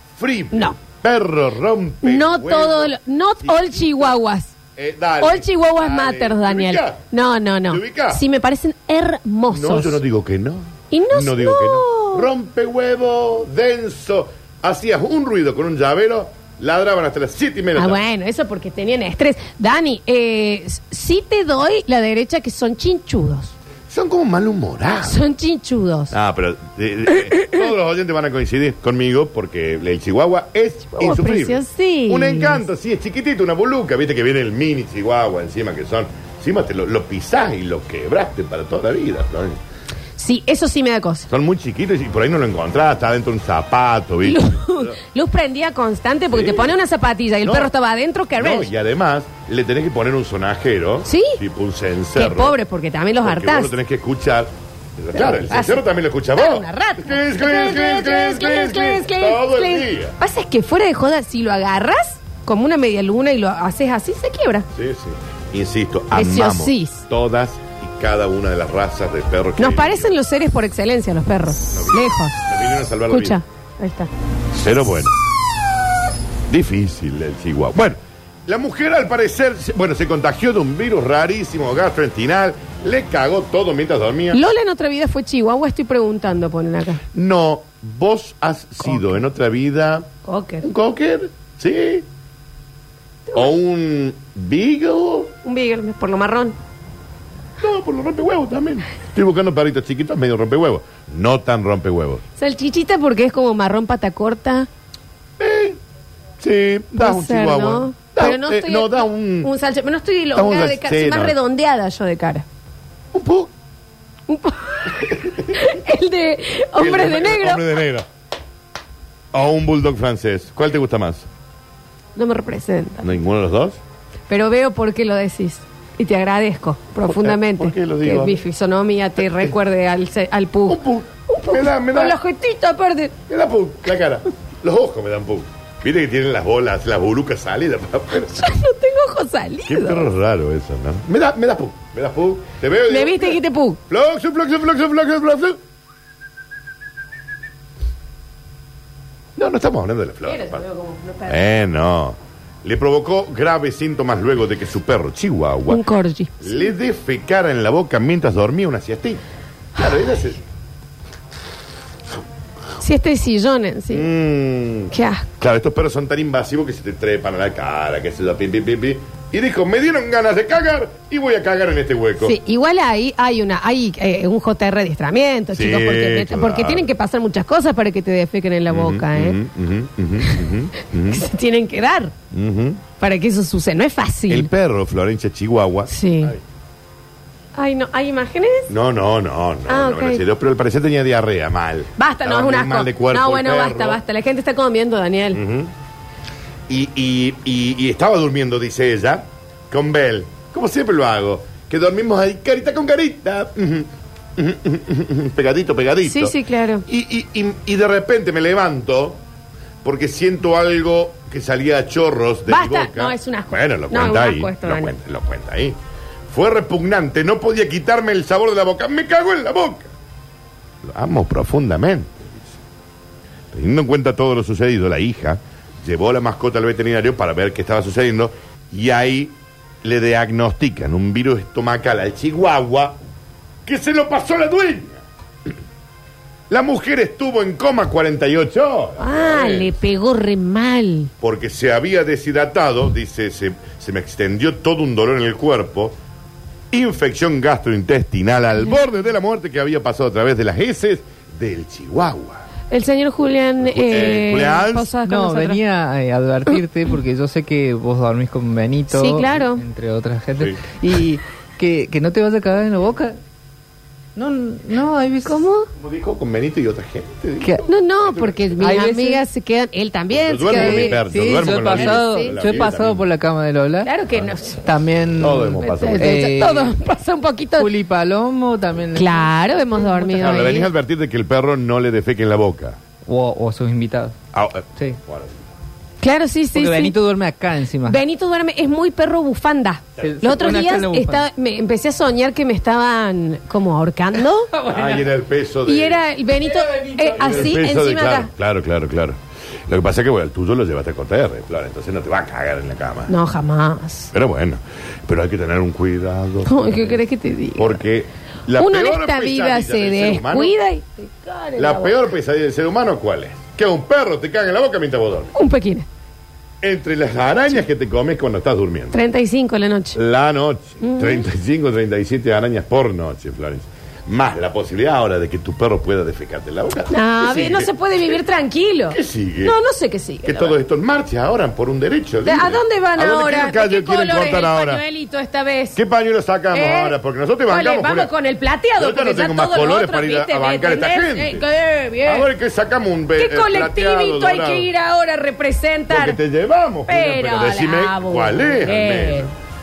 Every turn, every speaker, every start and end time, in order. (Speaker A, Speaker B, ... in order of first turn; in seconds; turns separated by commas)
Speaker A: 0.1-4.2, Speaker B: 0.5-0.8, Speaker B: 2.0-4.5, Speaker A: 4.8-7.0, Speaker B: 5.2-10.0, Speaker A: 7.7-8.2, Speaker A: 9.5-18.0, Speaker B: 10.9-12.3, Speaker B: 17.8-23.5, Speaker A: 23.9-25.2, Speaker B: 25.0-26.1, Speaker A: 26.1-39.6, Speaker B: 30.9-32.6, Speaker B: 40.2-41.3, Speaker A: 41.3-45.0, Speaker B: 44.2-48.7, Speaker A: 46.3-46.7, Speaker A: 47.4-47.7, Speaker A: 48.4-52.6, Speaker B: 51.0-51.4, Speaker B: 52.1-53.7, Speaker A: 53.2-60.1, Speaker B: 55.1-55.8, Speaker B: 56.3-64.7, Speaker A: 64.7-70.1, Speaker B: 66.1-67.0, Speaker B: 69.6-72.3, Speaker A: 71.7-73.4, Speaker B: 73.1-74.1, Speaker A: 74.5-75.1, Speaker A: 76.5-84.5, Speaker B: 84.3-87.0, Speaker A: 87.1-92.0, Speaker B: 90.2-90.6, Speaker A: 93.3-95.3, Speaker B: 95.4-96.6, Speaker A: 97.6-102.2, Speaker B: 102.4-104.7, Speaker A: 105.4-105.8, Speaker A: 106.4-109.5, Speaker B: 107.0-112.5, Speaker A: 110.3-111.4, Speaker A: 113.1-113.5, Speaker B: 114.3-117.6, Speaker A: 116.8-118.1, Speaker A: 119.3-121.3, Speaker B: 122.2-123.1, Speaker A: 123.0-123.8, Speaker B: 124.3-133.2, Speaker A: 127.1-128.4, Speaker A: 130.7-132.2, Speaker A: 133.3-138.5, Speaker B: 138.2-140.1, Speaker A: 139.7-145.6, Speaker B: 142.9-143.8, Speaker A: 149.3-150.6, Speaker B: 150.2-151.4, Speaker A: 151.3-155.8, Speaker B: 155.7-156.7, Speaker A: 156.4-159.2, Speaker A: 159.8-160.4, Speaker B: 162.8-164.1, Speaker A: 163.9-172.3, Speaker B: 164.9-165.2, Speaker B: 172.2-179.4, Speaker A: 175.5-176.9, Speaker A: 178.7-181.2, Speaker B: 181.1-182.1, Speaker A: 182.3-182.8, Speaker B: 183.0-184.5, Speaker A: 184.3-186.4, Speaker B: 185.9-186.3, Speaker B: 187.5-188.7, Speaker A: 188.7-194.0, Speaker B: 189.7-190.2, Speaker B: 192.0-195.4, Speaker A: 195.3-195.7, Speaker A: 196.7-209.2, Speaker B: 206.0-206.8, Speaker A: 209.8-215.8, Speaker B: 212.5-214.9, Speaker A: 216.3-219.9, Speaker A: 220.8-222.6, Speaker A: 223.5-233.0, Speaker A: 233.6-235.0, Speaker A: 236.5-239.8, Speaker B: 239.0-241.1, Speaker A: 241.2-245.9, Speaker A: 246.7-252.4, Speaker B: 252.7-255.6, Speaker A: 253.6-254.9, Speaker C: 255.0-263.2, Speaker B: 258.9-259.6, Speaker C: 264.1-265.4, Speaker B: 265.2-265.7, Speaker A: 265.8-268.5, Speaker B: 267.6-272.5, Speaker C: 268.6-269.2, Speaker A: 270.1-273.1, Speaker C: 270.5-273.9, Speaker B: 273.8-274.7, Speaker C: 274.6-276.8, Speaker A: 275.2-276.2, Speaker B: 275.5-277.7, Speaker C: 277.6-280.6, Speaker B: 278.9-280.7, Speaker A: 280.2-282.8, Speaker C: 283.0-284.2, Speaker A: 284.3-285.4, Speaker B: 286.0-286.9, Speaker C: 286.5-288.0, Speaker B: 287.8-294.5, Speaker C: 290.0-291.2, Speaker C: 294.5-295.0, Speaker A: 294.6-296.0, Speaker B: 295.6-298.3, Speaker C: 296.6-297.4, Speaker A: 297.2-303.1, Speaker B: 303.1-304.1, Speaker A: 304.1-307.0, Speaker B: 306.4-307.8, Speaker A: 307.5-310.5, Speaker B: 308.5-312.0, Speaker A: 311.6-315.4, Speaker B: 315.3-315.9, Speaker A: 316.6-319.0, Speaker B: 318.9-320.0, Speaker A: 319.9-327.7, Speaker B: 320.8-321.2, Speaker B: 326.9-330.6, Speaker A: 328.9-329.6, Speaker A: 330.2-334.8, Speaker B: 332.2-335.8, Speaker A: 335.7-338.1, Speaker B: 336.5-336.9, Speaker B: 337.5-342.3, Speaker A: 338.8-341.4, Speaker A: 342.0-344.7, Speaker B: 343.2-346.2, Speaker A: 345.9-349.3, Speaker B: 346.9-349.3